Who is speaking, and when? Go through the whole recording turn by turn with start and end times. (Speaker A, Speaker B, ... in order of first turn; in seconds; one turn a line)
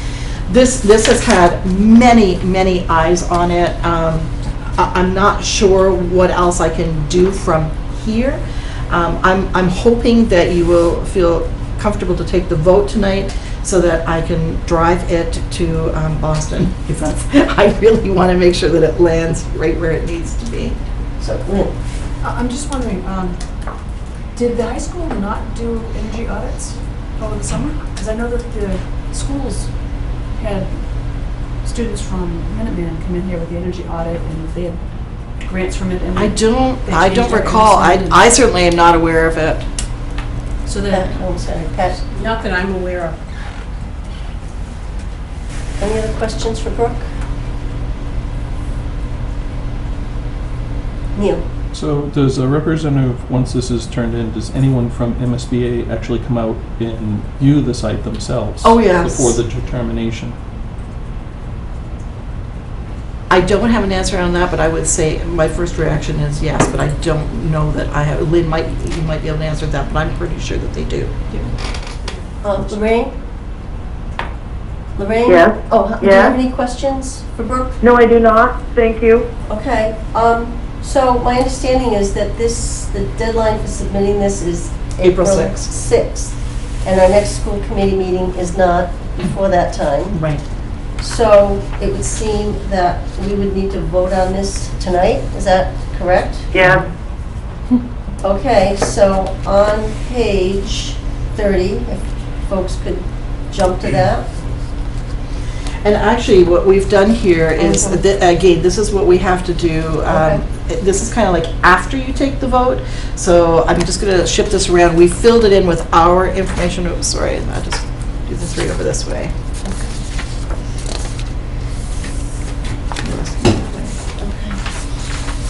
Speaker A: 0.5-20.8
Speaker B: 21.2-21.8
Speaker C: 22.2-23.4
Speaker C: 24.4-29.7
Speaker C: 30.3-34.8
Speaker C: 35.4-38.2
Speaker A: 36.1-39.6
Speaker C: 40.7-41.1
Speaker B: 40.9-42.0
Speaker C: 42.0-43.2
Speaker B: 45.8-47.1
Speaker B: 51.1-51.4
Speaker D: 51.7-60.4
Speaker A: 58.6-59.4
Speaker A: 63.3-71.2
Speaker B: 72.4-73.2
Speaker B: 75.0-77.8
Speaker E: 75.3-76.4
Speaker E: 77.8-79.3
Speaker B: 79.5-90.2
Speaker A: 85.0-85.7
Speaker A: 90.1-90.4
Speaker B: 91.0-96.5
Speaker E: 96.5-96.8
Speaker B: 98.2-104.3
Speaker A: 105.8-119.3
Speaker B: 110.1-110.4
Speaker A: 123.0-124.0
Speaker B: 124.2-124.6